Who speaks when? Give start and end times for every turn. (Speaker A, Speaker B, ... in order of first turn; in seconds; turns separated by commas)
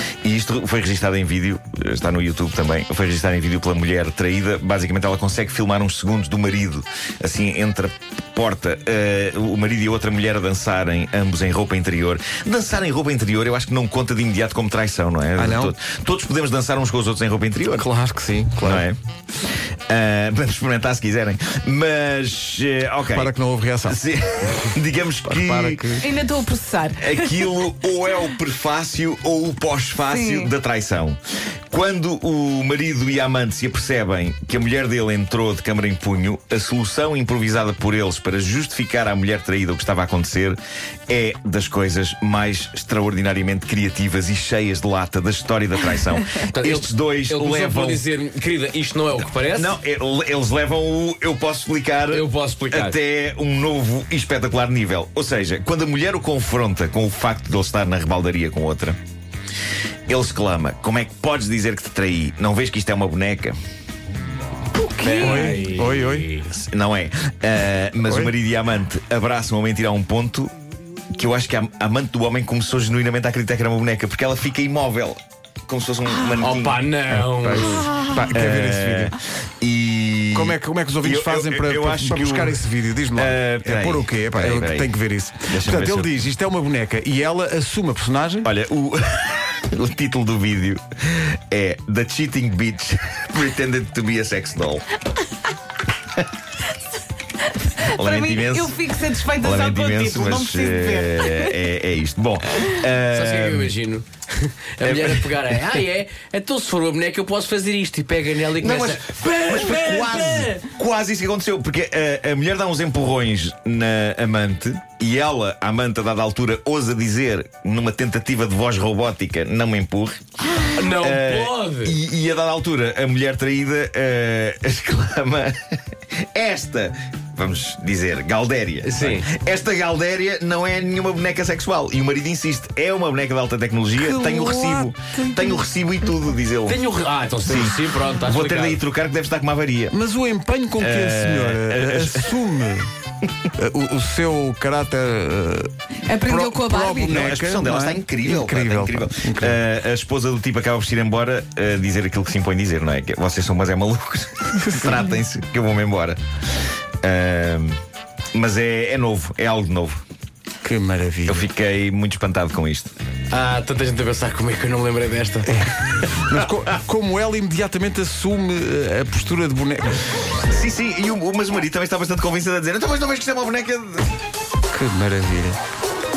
Speaker A: 0.2-17.9, Speaker B: 15.3-15.7, Speaker B: 17.7-18.8, Speaker A: 18.6-23.3, Speaker B: 23.1-24.0, Speaker A: 23.8-25.9, Speaker B: 25.2-26.1, Speaker C: 26.0-27.4, Speaker A: 27.0-31.2, Speaker C: 30.1-30.5, Speaker A: 31.7-48.0, Speaker D: 46.4-49.7, Speaker A: 49.5-59.0, Speaker D: 52.1-53.0, Speaker A: 60.1-63.5, Speaker B: 64.8-66.3, Speaker D: 65.0-66.5, Speaker A: 65.2-65.5, Speaker A: 66.5-70.5, Speaker B: 68.1-68.3, Speaker A: 71.1-76.8, Speaker D: 76.4-77.9, Speaker B: 77.2-79.2, Speaker A: 78.3-82.6, Speaker B: 80.3-88.5, Speaker A: 83.1-86.2, Speaker A: 88.4-94.8, Speaker C: 97.7-101.5, Speaker A: 97.8-103.7, Speaker D: 103.1-110.6, Speaker A: 104.8-105.8, Speaker A: 108.6-120.2, Speaker D: 120.6-122.0, Speaker A: 120.9-125.7, Speaker A: 126.3-136.8, Speaker D: 128.8-129.3, Speaker B: 134.0-135.6, Speaker D: 136.7-138.8, Speaker A: 137.4-139.9, Speaker B: 139.9-142.9, Speaker A: 140.8-142.4, Speaker B: 143.5-149.6, Speaker C: 146.1-147.2, Speaker A: 147.1-156.2, Speaker B: 154.6-155.1, Speaker A: 157.0-157.8, Speaker A: 158.3-160.0, Speaker B: 160.6-161.4, Speaker A: 161.2-162.9, Speaker D: 163.3-165.5, Speaker B: 165.4-170.0, Speaker A: 166.1-166.4, Speaker A: 170.4-174.1, Speaker B: 174.7-175.6